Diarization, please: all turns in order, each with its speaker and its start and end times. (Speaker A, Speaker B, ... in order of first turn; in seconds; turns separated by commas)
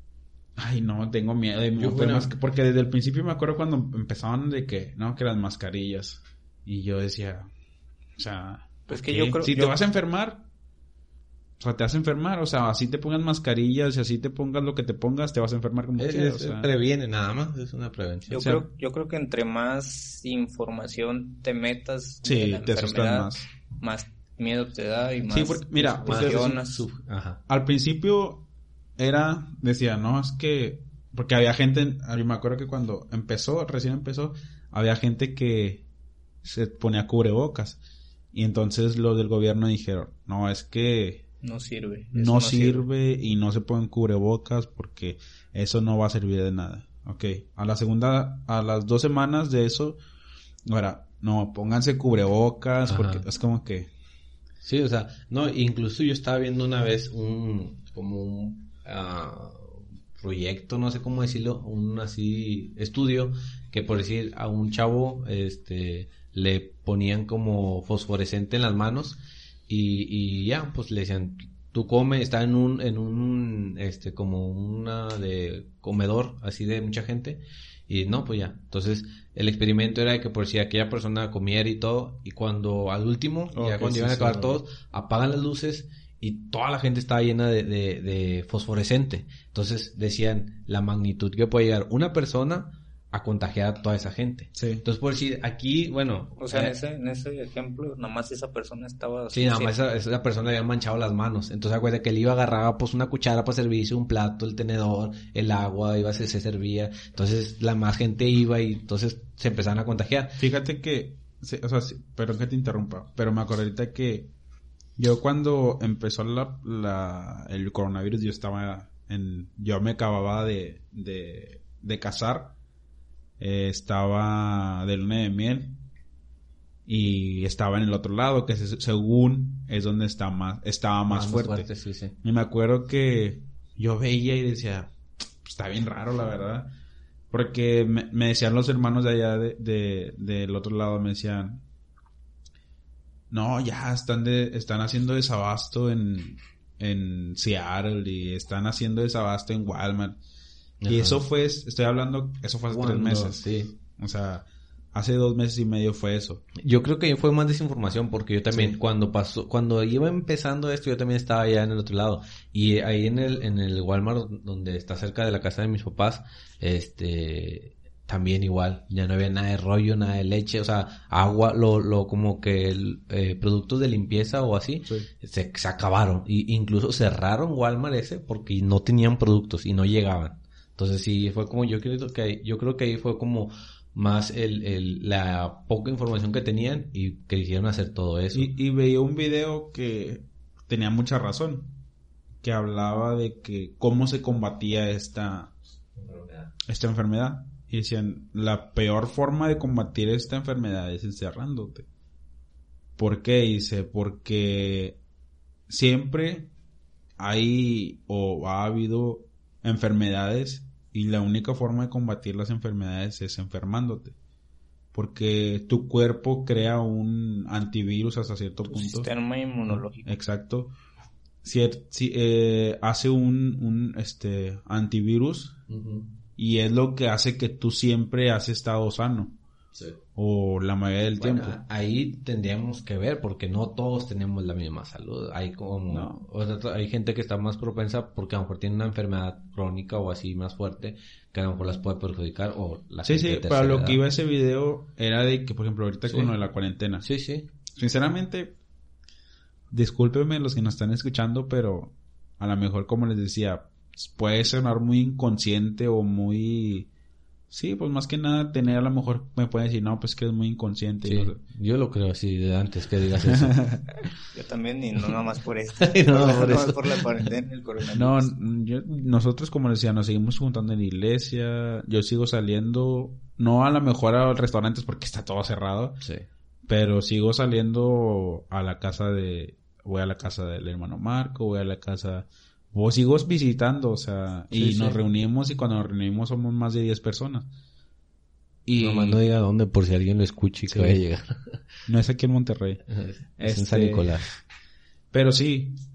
Speaker A: 0.6-7.5, Speaker B: 1.8-2.3, Speaker A: 8.2-10.4, Speaker C: 8.9-9.8, Speaker A: 11.6-16.7, Speaker B: 16.0-18.5, Speaker C: 18.3-26.9, Speaker A: 18.3-18.6, Speaker A: 22.2-23.5, Speaker A: 25.3-26.7, Speaker B: 26.1-27.4, Speaker A: 27.5-28.4, Speaker A: 29.0-35.8, Speaker A: 36.4-37.8, Speaker A: 38.3-41.2, Speaker C: 41.4-42.9, Speaker A: 42.1-50.0, Speaker A: 50.6-53.9, Speaker B: 52.9-53.2, Speaker B: 54.6-96.7, Speaker A: 83.5-84.6, Speaker A: 94.5-94.8, Speaker C: 96.4-99.7, Speaker B: 99.3-110.4, Speaker A: 110.4-114.3, Speaker A: 115.0-122.5, Speaker A: 123.4-125.8, Speaker A: 126.8-131.7, Speaker B: 131.1-132.2, Speaker A: 132.2-136.7, Speaker A: 137.3-141.6, Speaker A: 143.3-150.2, Speaker B: 150.8-151.2, Speaker A: 150.9-156.4, Speaker B: 152.7-153.7, Speaker B: 156.6-188.5, Speaker A: 188.3-191.7, Speaker A: 192.4-195.6, Speaker B: 196.0-196.5, Speaker A: 196.7-201.9, Speaker A: 203.0-205.0, Speaker A: 205.7-206.5, Speaker A: 207.2-214.1, Speaker A: 214.9-219.1, Speaker C: 218.7-220.2, Speaker A: 219.7-220.7, Speaker A: 221.4-225.6, Speaker B: 225.7-226.1, Speaker A: 226.3-229.4, Speaker A: 230.1-231.6, Speaker B: 231.2-244.0, Speaker A: 235.9-236.2, Speaker A: 243.0-247.0, Speaker B: 246.1-246.3, Speaker B: 247.0-247.5, Speaker A: 247.8-248.5, Speaker A: 249.7-256.9, Speaker A: 257.5-261.4, Speaker B: 261.0-263.6, Speaker A: 263.3-263.8, Speaker C: 264.3-268.3, Speaker B: 265.8-267.3, Speaker A: 267.9-276.0, Speaker A: 276.7-287.5, Speaker B: 284.5-285.0, Speaker A: 288.6-289.2, Speaker B: 288.8-291.6, Speaker A: 290.7-291.0, Speaker A: 291.9-292.8, Speaker B: 292.9-294.4, Speaker A: 293.4-294.3, Speaker A: 295.1-295.8